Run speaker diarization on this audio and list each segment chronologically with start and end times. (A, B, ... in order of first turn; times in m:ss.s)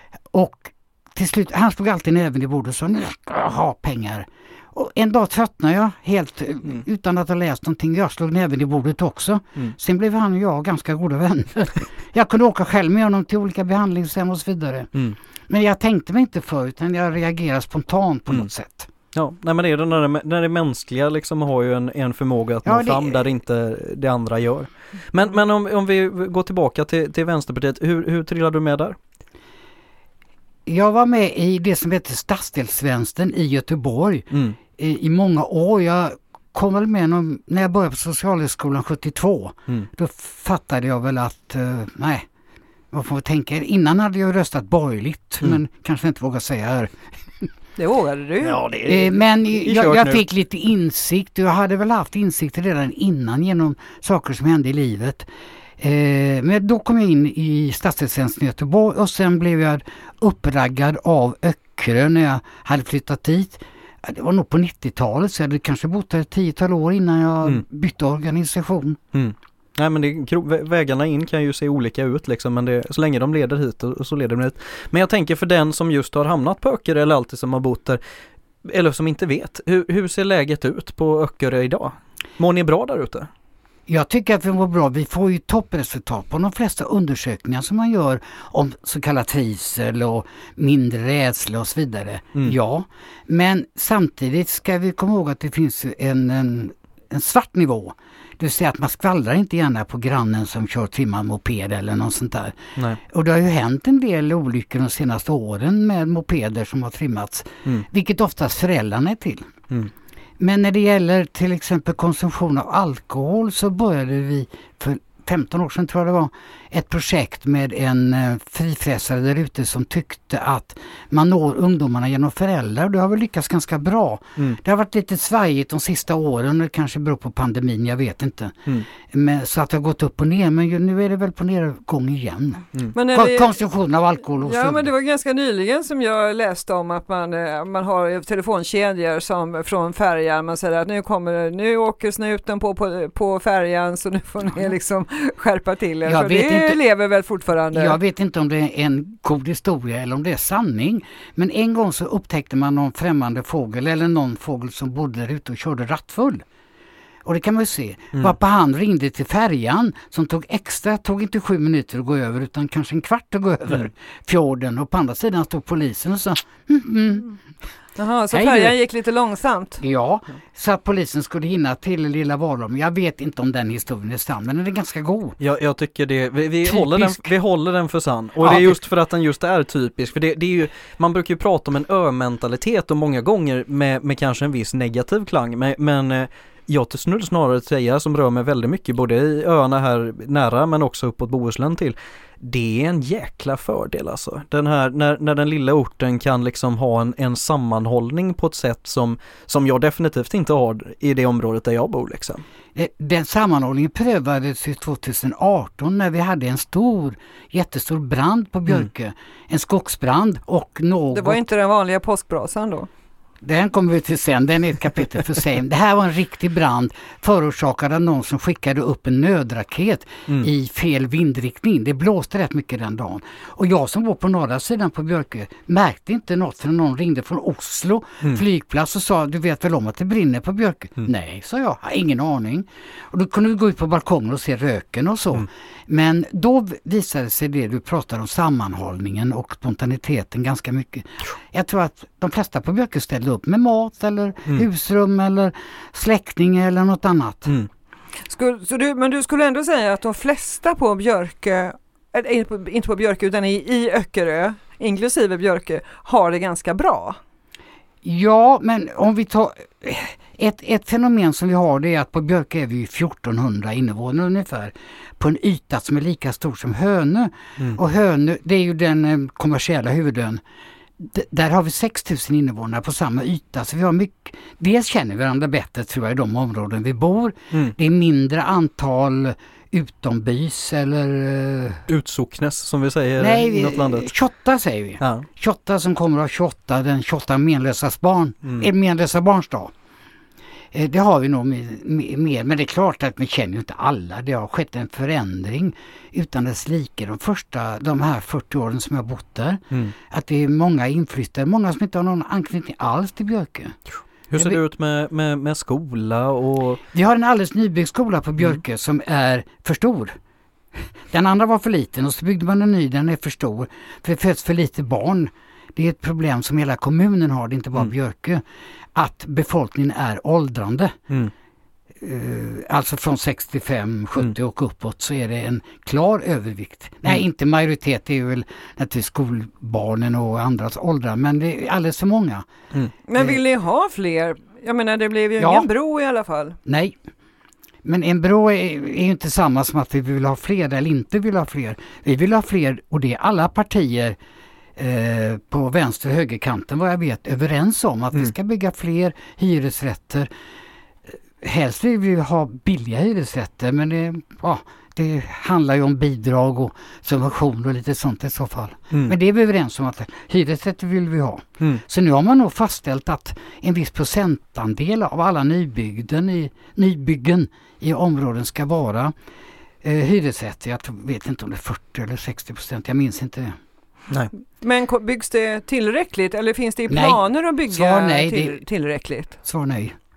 0:00.3-0:14.9 A
0:15.5-0:18.9 A
0:19.1-0:29.0 B
0:22.6-0:23.2 A
0:30.6-0:42.2 A
0:42.9-0:47.5 A
0:47.8-0:48.6 C
0:48.5-0:48.9 B
0:48.8-0:55.2 A
0:49.6-0:50.2 B
0:55.8-1:09.0 A
1:09.1-1:18.0 B
1:18.6-1:23.3 B
1:23.9-1:42.6 A
1:43.1-1:49.5 A
1:50.4-2:14.9 A
2:12.9-2:13.6 C
2:14.4-2:28.0 C
2:26.0-2:26.8 A
2:27.7-2:36.4 A
2:37.2-2:47.3 A
2:48.0-2:49.8 C
2:48.3-2:48.8 A
2:49.8-2:55.4 A
2:55.4-3:22.4 B
2:56.6-2:57.3 A
2:58.4-2:58.8 A
3:22.7-3:31.4 A
3:31.1-3:32.9 C
3:33.4-4:07.5 A
4:08.3-4:17.2 C
4:18.0-4:30.4 A
4:31.0-4:41.8 A
4:41.9-4:44.1 B
4:43.2-4:49.7 A
4:50.7-5:03.8 A
5:04.3-5:06.8 B
5:06.9-5:10.1 A
5:10.8-5:18.4 A
5:18.9-5:21.0 A
5:22.0-5:32.4 A
5:33.1-5:36.6 C
5:35.4-5:35.7 A
5:36.6-5:37.0 A
5:37.8-5:44.2 A
5:44.8-5:50.3 A
5:51.4-6:09.1 A
6:09.8-6:13.6 A
6:14.6-6:19.3 C
6:16.9-6:18.6 A
6:19.4-6:20.0 A